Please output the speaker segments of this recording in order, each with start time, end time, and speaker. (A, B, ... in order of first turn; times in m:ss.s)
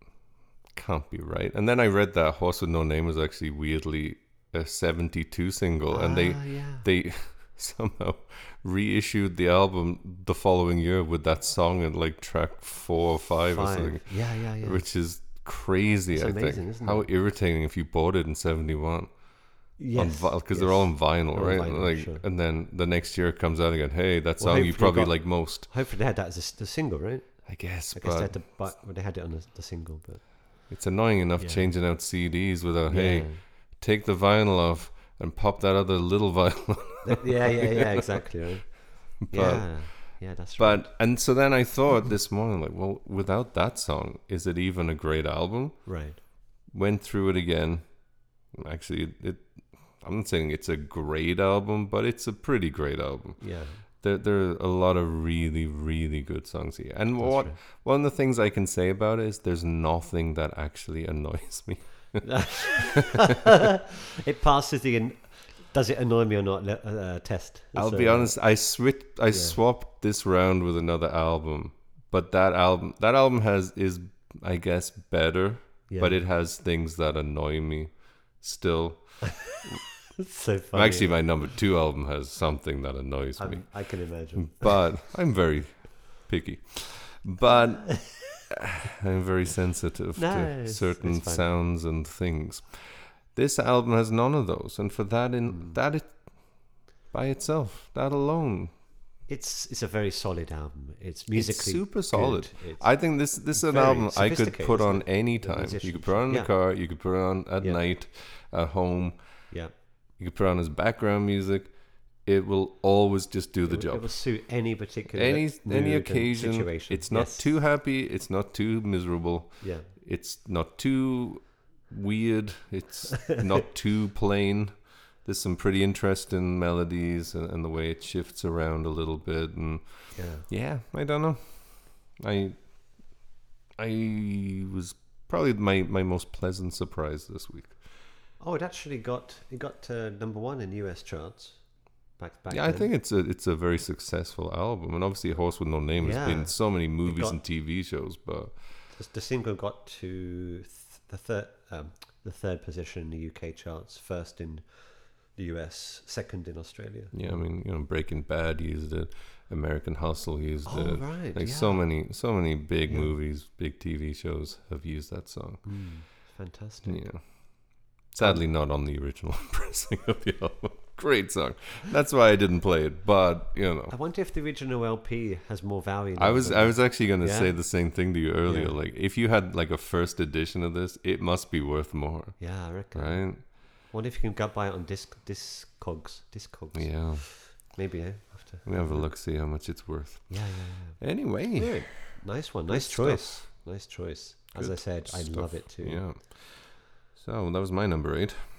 0:00.7-0:25.7 A
0:05.9-0:06.8 B
0:13.5-0:14.8 B
0:16.1-0:17.1 B
0:19.8-0:22.2 B
0:24.4-0:30.7 B
0:27.5-0:28.7 A
0:30.7-0:38.3 A
0:31.4-0:31.7 B
0:32.9-0:33.4 B
0:37.0-0:40.9 B
0:39.2-0:46.0 A
0:45.9-0:46.2 B
0:46.7-1:03.2 A
0:53.4-0:53.8 B
0:57.2-0:57.6 B
1:02.2-1:03.7 B
1:04.2-1:08.6 B
1:07.8-1:19.6 A
1:09.3-1:09.6 B
1:15.9-1:16.2 B
1:19.6-1:21.3 B
1:20.7-1:38.7 A
1:23.4-1:24.8 B
1:27.6-1:28.2 B
1:30.2-1:31.5 B
1:35.5-1:35.8 B
1:39.3-1:47.1 B
1:41.3-1:49.5 A
1:50.2-1:54.4 A
1:53.7-1:57.5 B
1:55.1-2:12.6 A
1:59.6-1:59.9 B
2:10.1-2:10.5 B
2:13.8-2:17.8 A
2:18.4-2:22.9 B
2:22.5-2:28.6 A
2:26.0-2:27.4 B
2:28.9-2:37.4 B
2:37.1-2:45.7 A
2:40.7-2:42.3 B
2:42.9-2:43.1 B
2:45.6-2:47.6 B
2:46.8-2:53.9 A
2:53.9-2:58.8 B
2:56.2-3:03.5 A
3:02.4-3:09.2 B
3:06.7-3:07.6 A
3:08.6-3:13.5 A
3:10.3-3:16.0 B
3:14.6-3:18.4 A